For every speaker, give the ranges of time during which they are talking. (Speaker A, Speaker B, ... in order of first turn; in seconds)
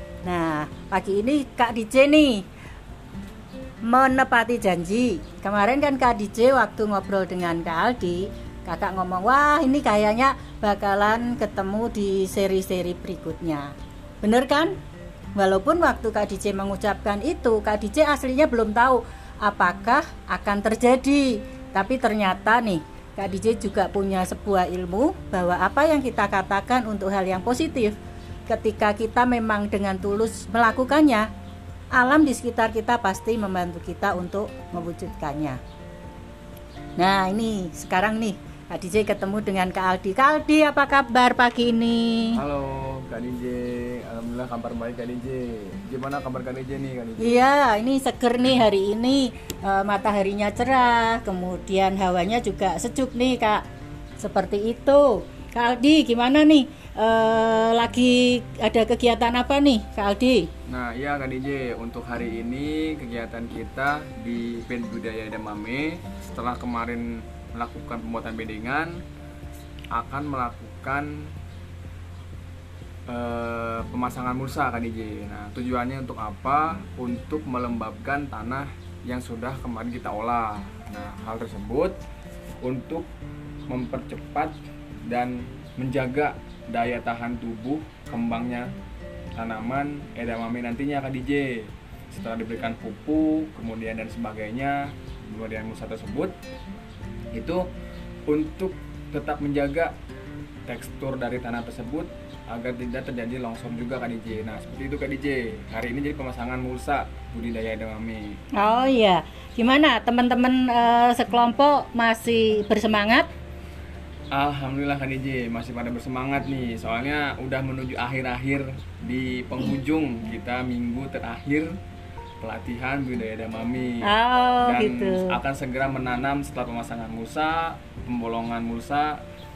Speaker A: 0.2-2.5, 3.8-14.8, 15.3-31.3, 31.9-35.6, 37.0-42.4, 47.2-53.6, 54.2-60.5, 108.6-113.3, 124.0-125.4
Speaker B: 42.3-47.4, 60.7-69.0, 69.9-71.3, 73.1-82.0, 82.6-83.1, 83.7-88.7, 89.3-96.3, 97.3-97.6, 98.3-99.9, 100.7-108.4, 114.3-121.8, 122.4-124.1, 124.6-129.2